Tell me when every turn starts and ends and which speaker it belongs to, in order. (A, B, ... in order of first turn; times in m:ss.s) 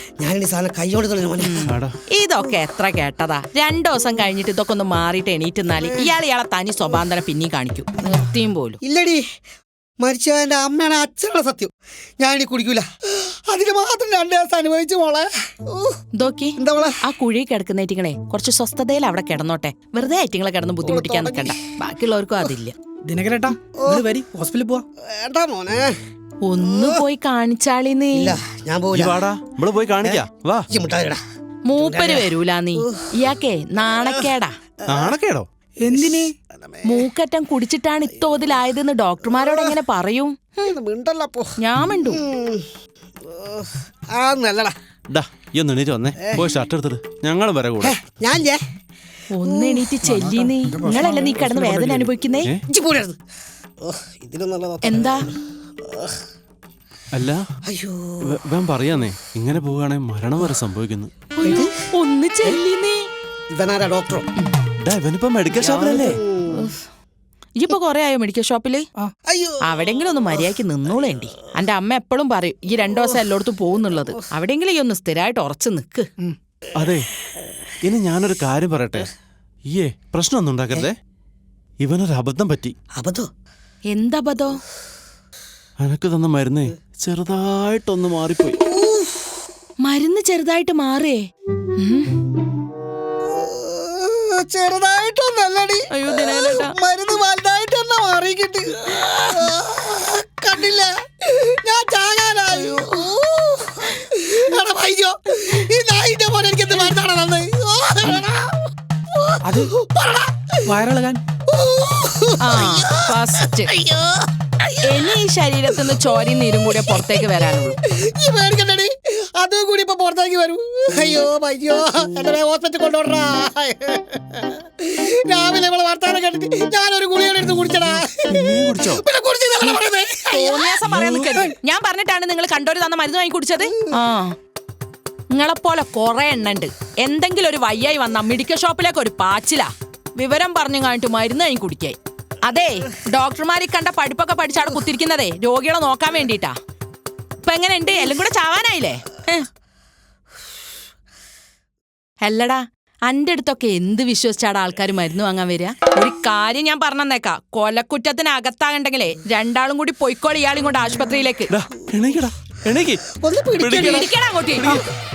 0:00.2-0:01.7 A
0:01.4-0:08.8 B
0:01.7-0:02.0 C
0:05.7-0:06.2 A
0:08.8-0:09.2 A
0:10.0-0:16.0 A
0:16.2-0:22.8 B
0:16.6-0:17.0 A
0:20.8-0:21.6 A
0:23.0-0:24.8 D
0:23.8-0:24.1 A
0:25.0-0:25.9 A
0:26.4-0:28.4 B
0:26.6-0:27.0 A
0:28.1-0:29.2 A
0:28.9-0:30.7 C
0:30.0-0:31.2 A
0:31.7-0:34.5 B
0:31.8-0:33.3 A
0:33.9-0:34.3 A
0:34.8-0:35.2 A
0:34.9-0:35.5 C
0:35.8-0:36.3 D
0:35.9-0:37.1 A
0:36.8-0:40.7 B
0:38.1-0:38.5 A
0:39.2-0:39.8 A
0:40.6-0:41.5 A
0:41.6-0:42.2 B
0:42.1-0:42.7 A
0:43.2-0:44.7 A
0:45.1-0:48.0 C
0:46.2-0:46.4 A
0:47.8-0:48.6 A
0:49.3-0:52.5 B
0:49.4-0:49.9 A
0:50.0-0:52.1 D
0:52.7-0:53.2 A
0:53.8-0:56.2 A
0:54.8-0:55.3 B
0:57.1-0:57.4 C
0:57.6-0:58.4 A
0:58.2-1:01.1 C
1:01.4-1:03.1 B
1:01.4-1:01.9 A
1:03.5-1:04.3 A
1:04.8-1:06.2 C
1:05.6-1:06.8 B
1:05.9-1:06.7 A
1:07.6-1:08.9 B
1:09.3-1:11.5 A
1:09.6-1:16.1 B
1:12.8-1:13.3 A
1:13.9-1:14.3 A
1:16.8-1:17.1 C
1:17.2-1:17.6 A
1:17.8-1:19.1 C
1:19.7-1:21.0 C
1:21.8-1:22.8 C
1:23.0-1:23.3 A
1:23.9-1:24.6 B
1:25.8-1:28.6 C
1:28.6-1:29.4 A
1:29.8-1:31.2 B
1:31.8-1:32.2 B
1:33.3-1:50.8 A
1:35.9-1:36.8 B
1:49.4-1:49.7 D
1:50.6-1:51.2 D
1:51.5-1:55.2 A
1:52.4-1:53.7 B
1:54.8-1:57.8 B
1:55.7-1:56.0 A
1:56.7-2:11.5 A
2:08.3-2:09.0 C
2:10.3-2:14.3 B
2:13.6-2:14.0 A
2:15.3-2:26.6 B
2:27.4-2:29.5 B
2:32.2-2:41.5 B
2:41.5-2:43.1 C
2:43.1-2:44.1 A
2:43.6-2:44.8 C
2:43.7-2:44.8 B